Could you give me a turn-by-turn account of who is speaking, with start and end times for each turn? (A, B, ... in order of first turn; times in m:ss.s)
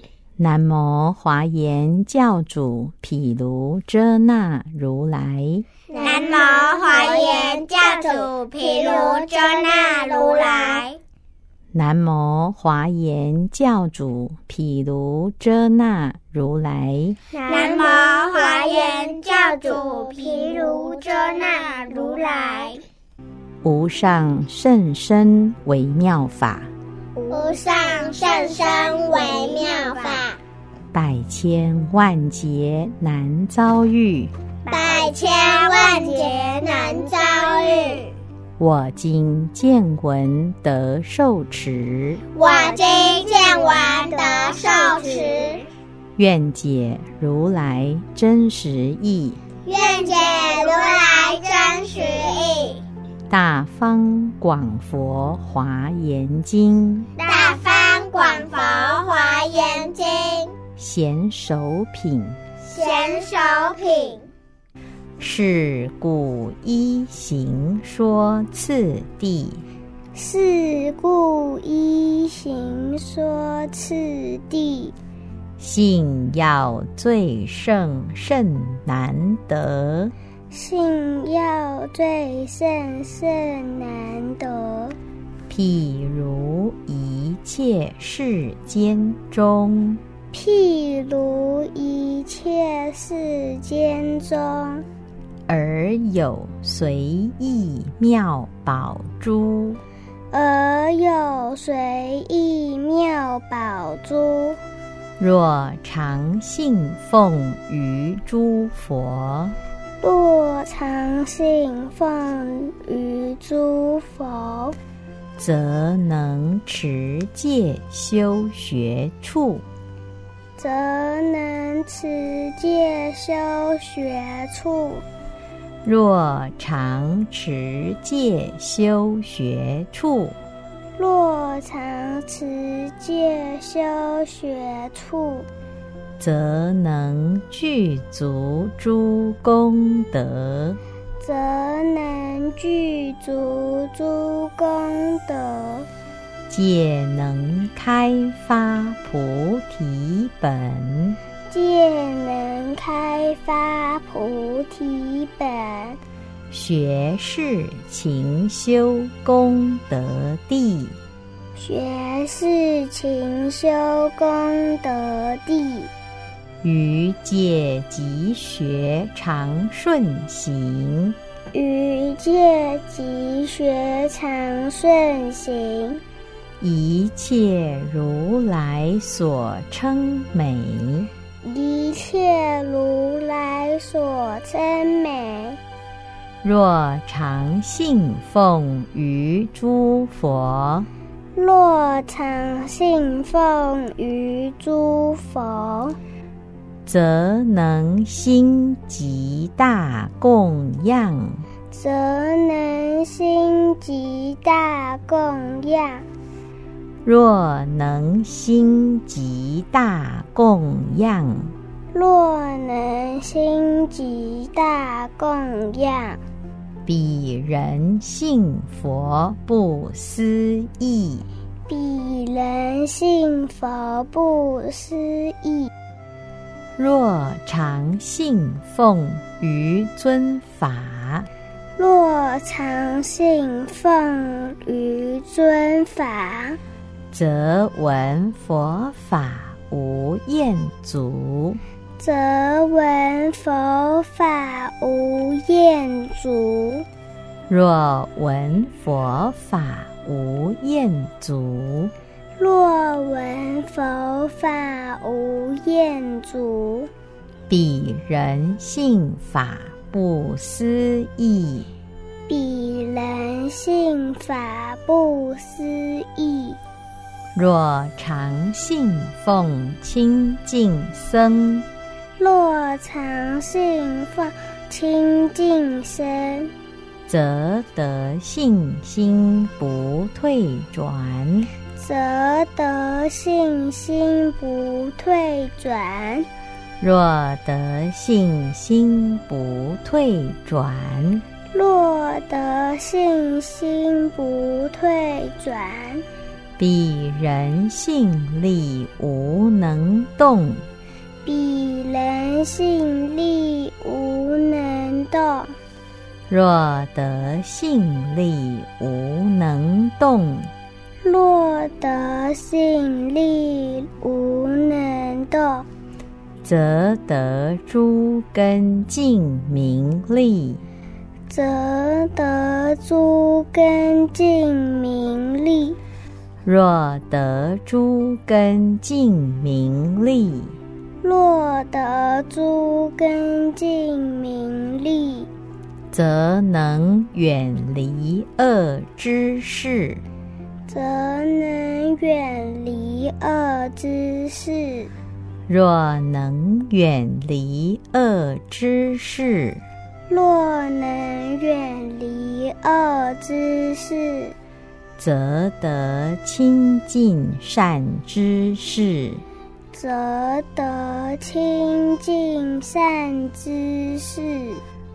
0:00.4-0:05.6 A
0:05.9-0:11.0 B
0:05.9-0:07.3 C
0:11.7-0:17.2 A
0:17.3-0:22.8 B
0:17.5-0:22.2 C
0:23.6-0:26.7 A
0:27.2-0:30.0 C
0:27.3-0:30.4 B
0:30.9-0:34.3 A
0:34.7-0:38.1 B
0:34.7-0:35.1 C
0:36.4-0:36.7 C
0:38.6-0:42.2 A
0:42.3-0:45.7 B
0:43.1-0:43.4 C
0:44.1-0:45.1 C
0:46.2-0:49.4 A
0:49.7-0:52.8 B
0:53.3-0:57.1 A
0:57.2-1:00.6 B
1:00.8-1:02.4 A
1:02.6-1:04.3 B
1:05.2-1:09.6 A
1:10.1-1:14.9 C
1:15.6-1:20.1 A
1:20.5-1:25.0 C
1:25.5-1:30.0 A
1:30.3-1:34.9 C
1:35.5-1:39.8 A
1:40.3-1:44.6 C
1:45.2-1:49.6 A
1:50.0-1:54.8 C
1:55.4-1:59.6 A
2:00.6-2:05.0 C
2:05.8-2:10.4 A
2:11.0-2:15.5 C
2:16.2-2:20.8 A
2:21.2-2:25.9 C
2:26.5-2:31.2 A
2:31.5-2:36.0 C
2:36.5-2:41.0 A
2:41.6-2:45.9 C
2:46.6-2:51.2 A
2:51.5-2:56.0 C
2:56.6-3:01.1 A
3:01.4-3:05.6 C
3:06.4-3:10.9 A
3:11.3-3:16.0 C
3:16.8-3:21.4 A
3:21.7-3:26.1 C
3:27.0-3:31.5 A
3:31.9-3:36.2 C
3:36.8-3:41.3 A
3:41.7-3:45.7 C
3:46.8-3:51.3 A
3:51.8-3:56.6 C
3:57.1-4:01.6 A
4:02.0-4:06.8 C
4:07.5-4:11.9 A
4:12.4-4:16.9 C
4:17.5-4:21.7 A
4:22.3-4:26.6 C
4:27.4-4:31.7 A
4:32.2-4:36.5 C
4:37.1-4:41.5 A
4:41.8-4:46.3 C
4:46.8-4:51.2 A
4:51.5-4:56.0 C
4:56.6-5:00.6 A
5:01.2-5:05.5 C
5:06.3-5:10.5 A
5:11.0-5:15.7 C
5:16.4-5:20.6 A
5:21.3-5:25.8 C
5:26.4-5:30.6 A
5:31.0-5:35.3 C
5:35.9-5:40.0 A
5:40.7-5:44.9 C
5:45.5-5:49.6 A
5:50.1-5:54.4 C
5:55.0-5:59.2 A
5:59.7-6:04.6 C